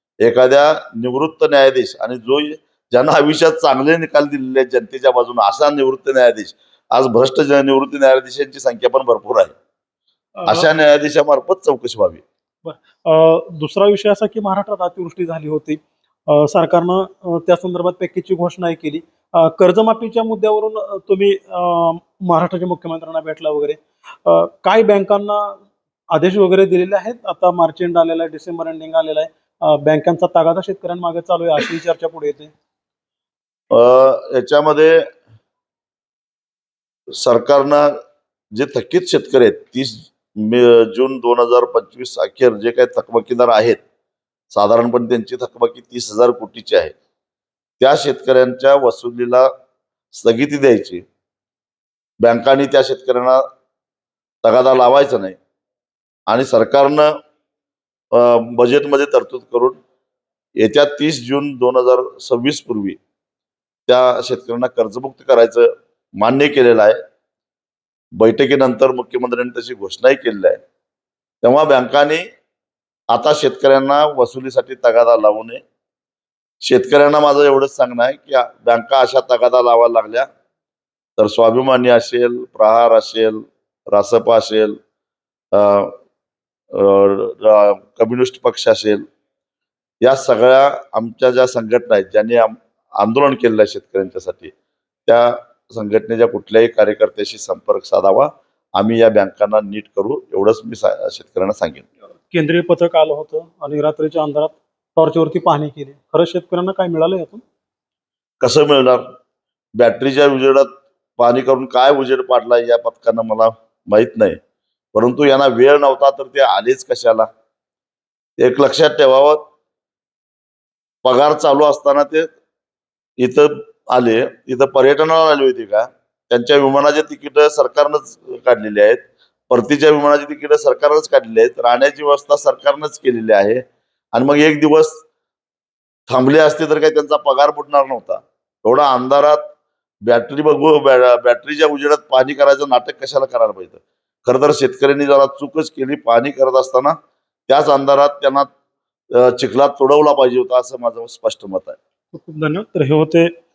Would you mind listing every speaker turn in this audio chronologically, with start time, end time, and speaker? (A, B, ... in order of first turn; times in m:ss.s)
0:00.2-0:09.5 A
0:10.4-0:10.7 B
0:10.5-0:12.2 A
0:12.6-0:25.6 B
0:26.1-0:32.5 B
0:33.7-0:35.0 A
0:37.2-0:37.9 A
0:38.5-0:43.8 A
0:44.5-0:46.9 A
0:47.8-0:49.5 A
0:50.1-0:51.0 A
0:52.2-0:53.4 A
0:54.4-0:55.4 A
0:56.3-0:57.1 A
0:58.1-0:59.8 A
1:00.6-1:03.0 A
1:03.9-1:07.0 A
1:08.2-1:10.6 A
1:11.4-1:12.2 A
1:13.1-1:15.6 A
1:16.6-1:20.3 A
1:21.2-1:24.8 A
1:25.5-1:26.0 A
1:26.7-1:29.0 A
1:30.0-1:34.5 A
1:35.1-1:41.9 A
1:42.3-1:47.4 B
1:48.4-1:49.0 A
1:49.8-1:54.4 A
1:55.0-1:57.3 A
1:58.4-1:59.4 A
2:01.0-2:02.3 A
2:03.2-2:13.6 A
2:14.1-2:15.0 A
2:16.1-2:19.4 A
2:20.0-2:27.0 A
2:27.5-2:28.5 A
2:29.1-2:31.8 A
2:32.1-2:33.3 B